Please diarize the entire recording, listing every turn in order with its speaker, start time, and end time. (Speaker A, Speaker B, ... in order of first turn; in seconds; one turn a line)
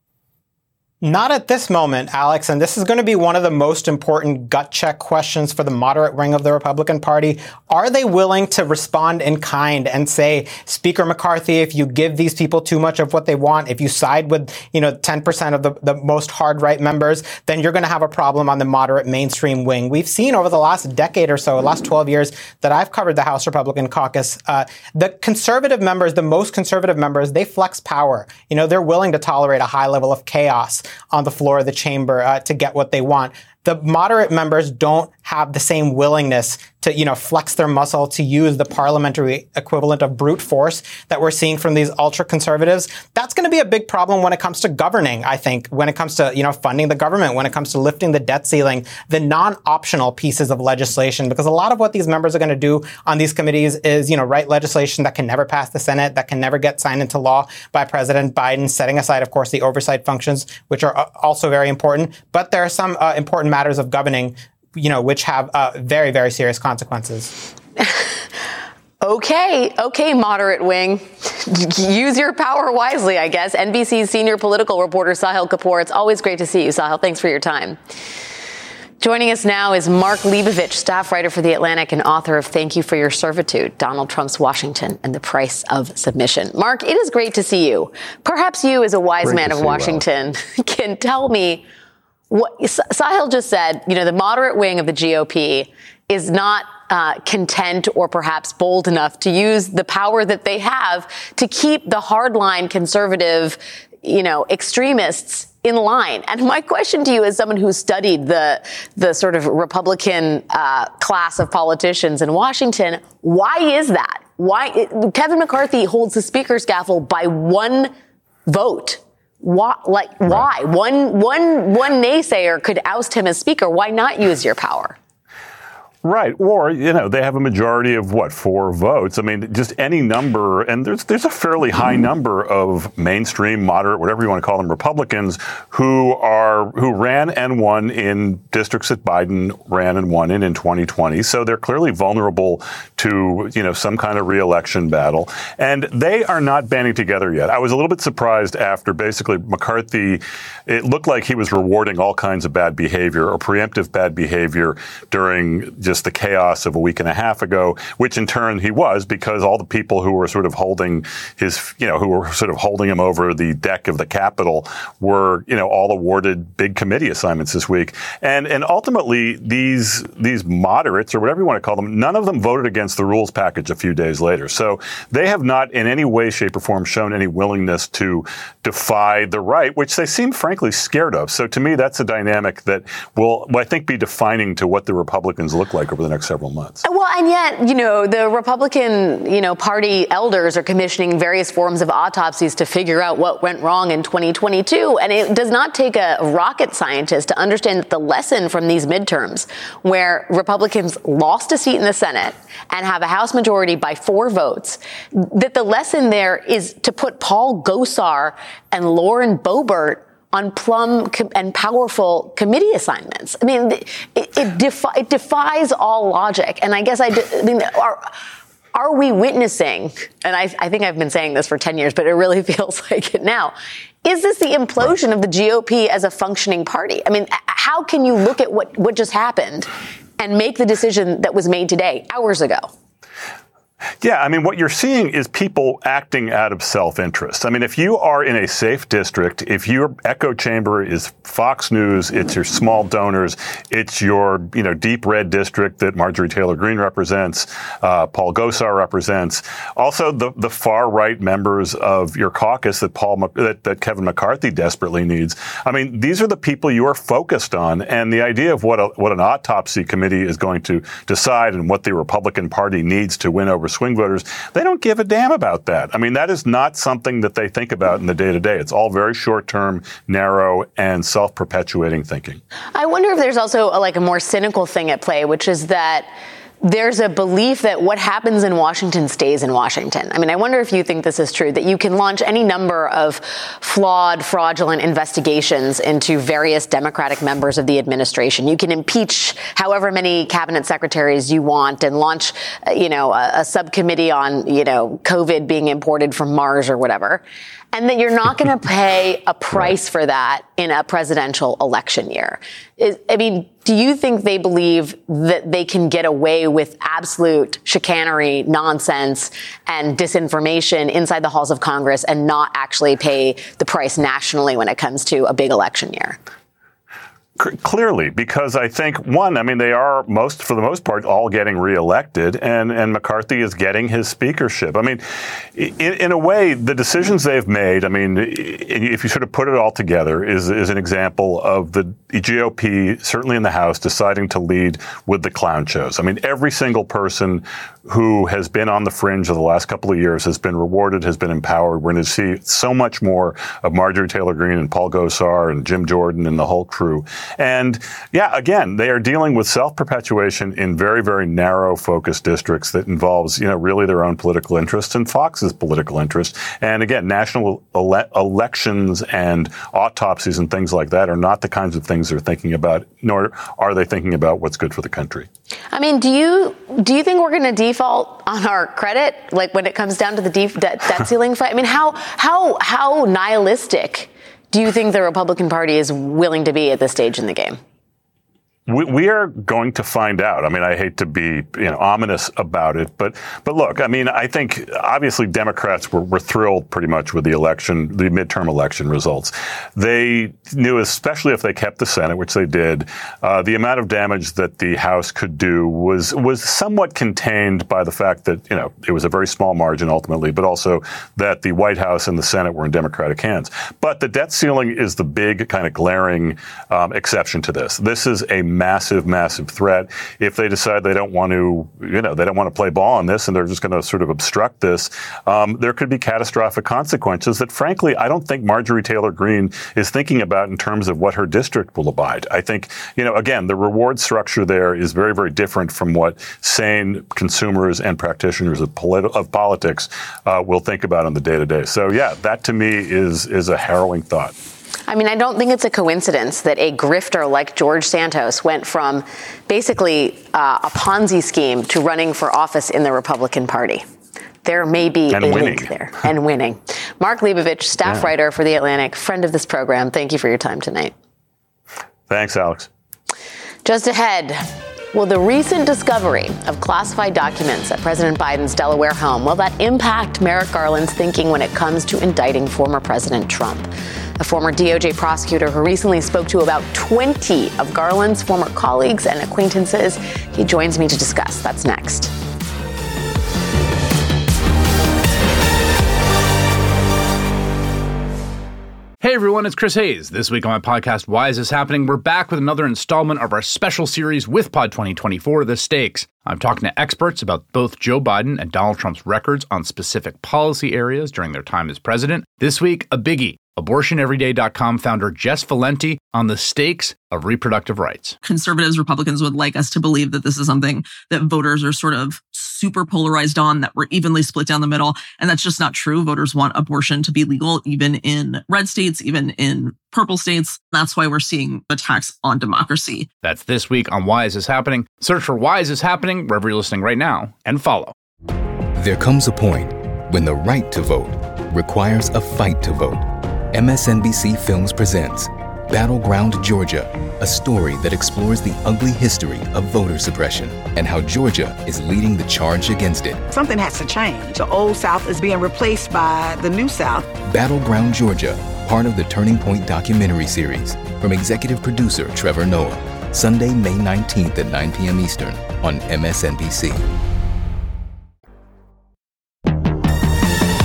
Speaker A: 1.0-67.3
Speaker B: 69.0-77.8
Speaker B: 79.0-91.7
Speaker C: 89.2-90.0
Speaker B: 92.3-117.9
Speaker B: 118.5-125.0
Speaker C: 126.0-186.8
Speaker B: 186.8-218.1
Speaker B: 218.8-232.7
Speaker C: 234.0-272.4
Speaker B: 272.8-276.1
Speaker B: 276.6-316.2
Speaker C: 317.4-325.0
Speaker C: 325.6-365.3
Speaker B: 365.7-377.6
Speaker C: 378.7-434.3
Speaker B: 434.9-443.8
Speaker B: 444.4-450.9
Speaker C: 445.1-445.7
Speaker C: 452.1-452.7
Speaker B: 453.6-463.7
Speaker B: 464.2-472.1
Speaker D: 479.0-498.2
Speaker E: 498.2-513.1
Speaker D: 513.2-517.9
Speaker F: 518.8-533.3
Speaker G: 533.3-537.1
Speaker F: 537.2-546.9